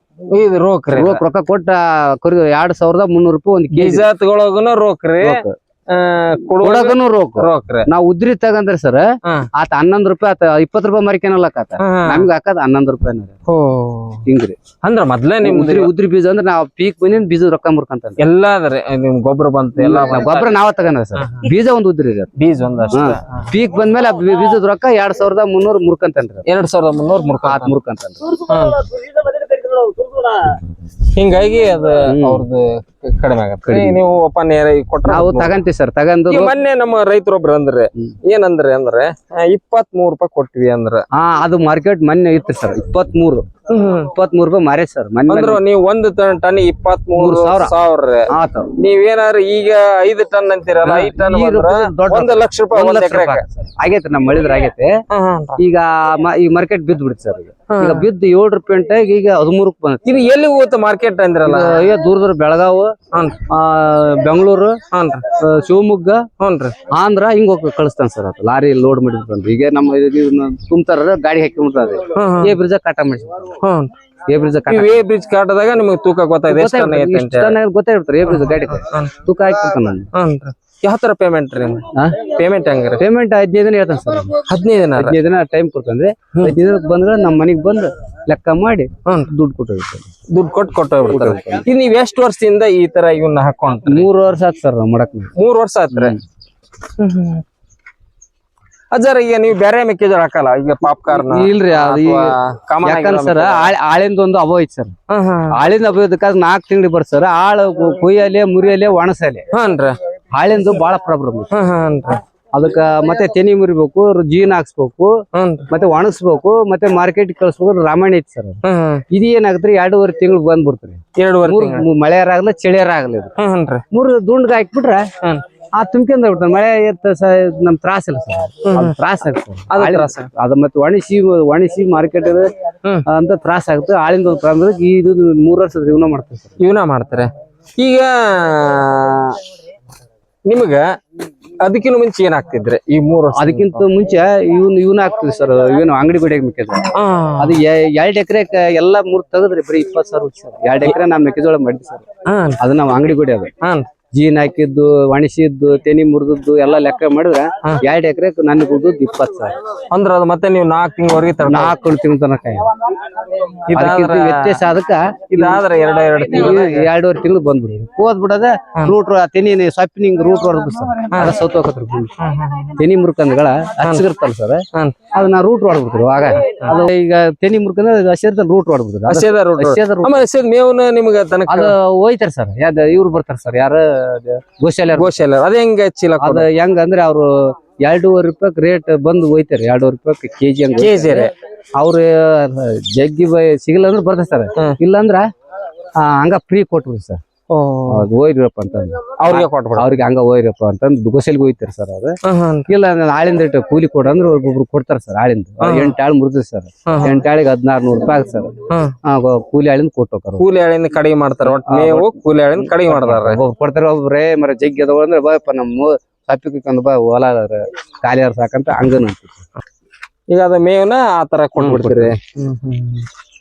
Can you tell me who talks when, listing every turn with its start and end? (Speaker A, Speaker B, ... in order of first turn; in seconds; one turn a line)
Speaker A: 0.3-1.2
Speaker B: 0.9-4.0
Speaker A: 3.7-7.9
Speaker B: 5.2-5.6
Speaker B: 6.6-9.1
Speaker A: 9.2-9.5
Speaker B: 9.6-13.3
Speaker A: 11.8-12.3
Speaker A: 13.5-14.2
Speaker B: 14.3-14.6
Speaker A: 14.8-15.9
Speaker B: 15.4-18.2
Speaker A: 18.2-20.6
Speaker B: 19.8-22.3
Speaker A: 21.1-21.5
Speaker A: 22.4-23.5
Speaker B: 22.9-26.5
Speaker A: 26.4-27.8
Speaker B: 27.4-28.3
Speaker A: 28.3-35.6
Speaker B: 32.1-32.4
Speaker B: 33.6-34.0
Speaker B: 35.1-36.5
Speaker A: 36.3-41.1
Speaker B: 41.1-43.5
Speaker A: 43.7-44.1
Speaker B: 44.1-45.6
Speaker A: 45.3-53.4
Speaker B: 47.1-47.8
Speaker B: 48.3-48.7
Speaker B: 50.8-54.9
Speaker A: 55.1-55.6
Speaker B: 55.6-60.0
Speaker A: 57.7-58.1
Speaker A: 60.0-61.9
Speaker B: 61.4-63.0
Speaker A: 63.1-63.4
Speaker B: 63.5-64.8
Speaker A: 64.9-65.3
Speaker B: 65.4-66.3
Speaker A: 66.4-66.8
Speaker B: 66.9-73.5
Speaker A: 72.1-72.6
Speaker A: 73.6-73.9
Speaker B: 74.3-75.0
Speaker A: 74.7-77.6
Speaker B: 76.5-80.1
Speaker A: 78.3-79.2
Speaker A: 80.1-83.0
Speaker B: 81.9-82.2
Speaker B: 83.0-84.4
Speaker A: 84.5-85.2
Speaker B: 84.9-90.1
Speaker A: 89.0-89.3
Speaker A: 90.3-94.1
Speaker B: 91.1-91.7
Speaker B: 93.9-95.3
Speaker A: 95.3-96.2
Speaker B: 95.9-96.2
Speaker A: 97.0-97.4
Speaker A: 98.9-103.7
Speaker B: 100.9-104.9
Speaker A: 105.1-105.6
Speaker B: 105.5-109.5
Speaker A: 109.5-110.0
Speaker B: 110.3-111.5
Speaker A: 111.5-112.2
Speaker B: 112.5-115.1
Speaker A: 115.3-115.7
Speaker B: 115.7-123.3
Speaker A: 118.6-119.0
Speaker A: 121.2-121.9
Speaker A: 123.4-123.8
Speaker B: 123.9-125.1
Speaker B: 125.8-132.5
Speaker A: 128.6-129.0
Speaker A: 129.7-130.3
Speaker B: 133.1-136.6
Speaker A: 136.6-139.4
Speaker A: 140.5-140.8
Speaker A: 141.6-143.9
Speaker B: 143.3-152.1
Speaker A: 146.9-147.6
Speaker A: 152.2-152.6
Speaker B: 152.6-153.5
Speaker A: 153.6-153.9
Speaker B: 154.1-159.6
Speaker A: 159.9-161.8
Speaker B: 161.5-162.7
Speaker A: 163.7-164.6
Speaker B: 163.7-165.6
Speaker A: 165.3-166.9
Speaker B: 166.2-172.1
Speaker A: 171.1-171.4
Speaker A: 172.2-172.8
Speaker B: 172.7-180.2
Speaker A: 173.8-174.1
Speaker A: 174.7-175.0
Speaker A: 179.1-181.8
Speaker B: 181.5-185.1
Speaker A: 184.9-186.5
Speaker B: 186.2-195.2
Speaker A: 190.8-191.3
Speaker B: 196.0-197.2
Speaker A: 197.5-198.1
Speaker B: 197.9-202.2
Speaker A: 199.2-200.1
Speaker A: 202.2-202.7
Speaker B: 202.7-210.5
Speaker A: 205.6-205.9
Speaker A: 206.9-207.2
Speaker A: 208.7-208.9
Speaker A: 210.4-213.4
Speaker B: 211.4-219.4
Speaker A: 220.3-223.1
Speaker B: 221.6-222.2